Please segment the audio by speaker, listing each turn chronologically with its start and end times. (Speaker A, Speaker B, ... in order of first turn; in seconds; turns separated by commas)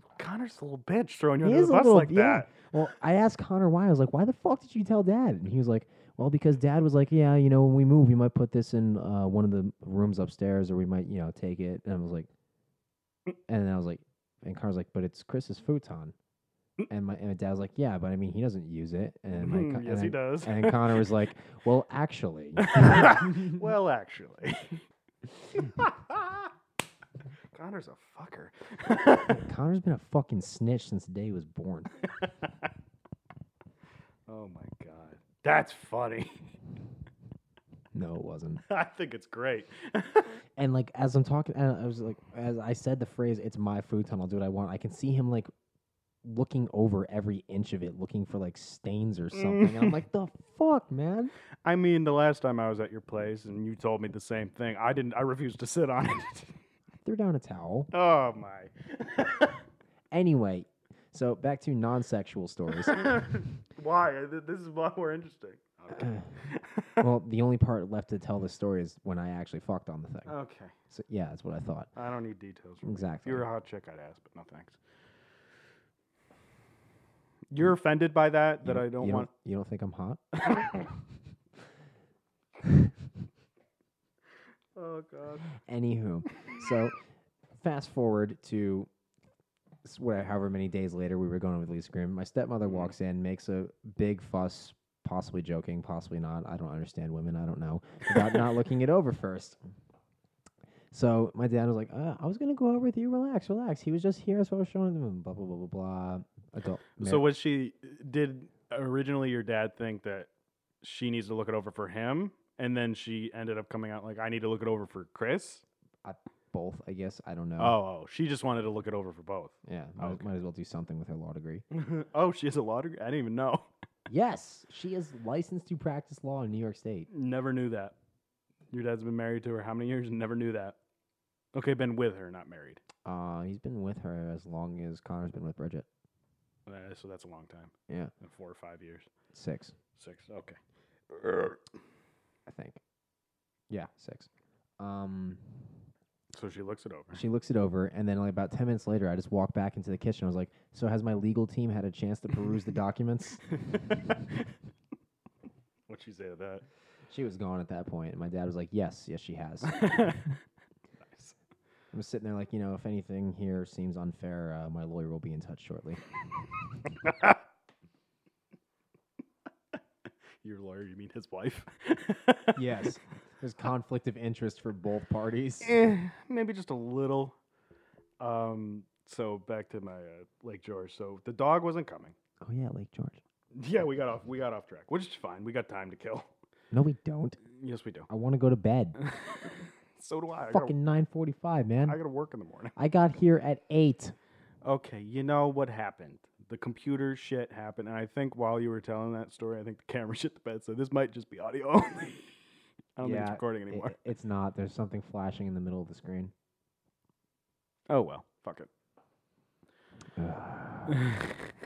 Speaker A: 0.2-2.5, Speaker B: 1.4-12.3, Speaker B: 13.5-16.1, Speaker B: 16.9-23.4, Speaker A: 19.4-21.0, Speaker A: 22.6-24.8, Speaker A: 25.6-26.5, Speaker A: 27.5-29.4, Speaker B: 29.3-31.9, Speaker A: 34.3-36.5, Speaker B: 37.9-38.6, Speaker A: 38.7-40.4, Speaker B: 40.6-45.5, Speaker B: 46.2-51.3, Speaker A: 51.6-56.6, Speaker B: 57.0-57.9, Speaker A: 57.9-59.6, Speaker B: 60.1-63.2, Speaker A: 62.9-67.0, Speaker B: 66.0-66.2, Speaker B: 67.0-70.4, Speaker A: 70.3-70.7, Speaker B: 70.9-71.9, Speaker A: 72.0-74.8, Speaker B: 72.8-73.5, Speaker A: 77.5-79.3, Speaker B: 78.6-80.8, Speaker A: 84.8-85.5, Speaker B: 85.6-87.0, Speaker B: 87.6-88.9, Speaker B: 89.8-99.6, Speaker A: 92.7-92.9, Speaker B: 100.9-107.3, Speaker A: 107.0-110.3, Speaker A: 110.8-115.6, Speaker B: 116.0-117.8, Speaker A: 117.6-120.3, Speaker B: 119.7-121.7, Speaker A: 121.7-123.7, Speaker B: 124.1-127.1, Speaker A: 127.1-128.0, Speaker A: 128.7-130.8, Speaker A: 131.5-132.8, Speaker B: 133.1-135.9, Speaker A: 136.7-139.1, Speaker B: 139.3-139.7, Speaker A: 140.0-140.6, Speaker A: 141.1-141.6, Speaker B: 142.5-142.8, Speaker B: 143.7-145.4, Speaker A: 146.3-147.2, Speaker B: 147.1-153.4, Speaker A: 153.7-154.4, Speaker A: 155.9-156.7, Speaker B: 157.1-160.1, Speaker A: 159.7-160.3, Speaker A: 161.0-161.4, Speaker B: 161.9-166.0, Speaker A: 170.4-172.6, Speaker B: 172.6-175.7, Speaker A: 175.6-177.4, Speaker A: 178.2-182.2, Speaker B: 182.4-183.2, Speaker A: 183.5-186.3, Speaker B: 186.7-187.4, Speaker A: 187.5-188.1, Speaker B: 188.1-189.0, Speaker A: 189.0-190.7, Speaker B: 190.5-192.0, Speaker A: 191.9-192.8, Speaker B: 192.8-194.2, Speaker A: 194.6-202.4, Speaker A: 203.0-204.0, Speaker B: 203.0-206.3, Speaker A: 207.9-208.7, Speaker B: 210.2-211.0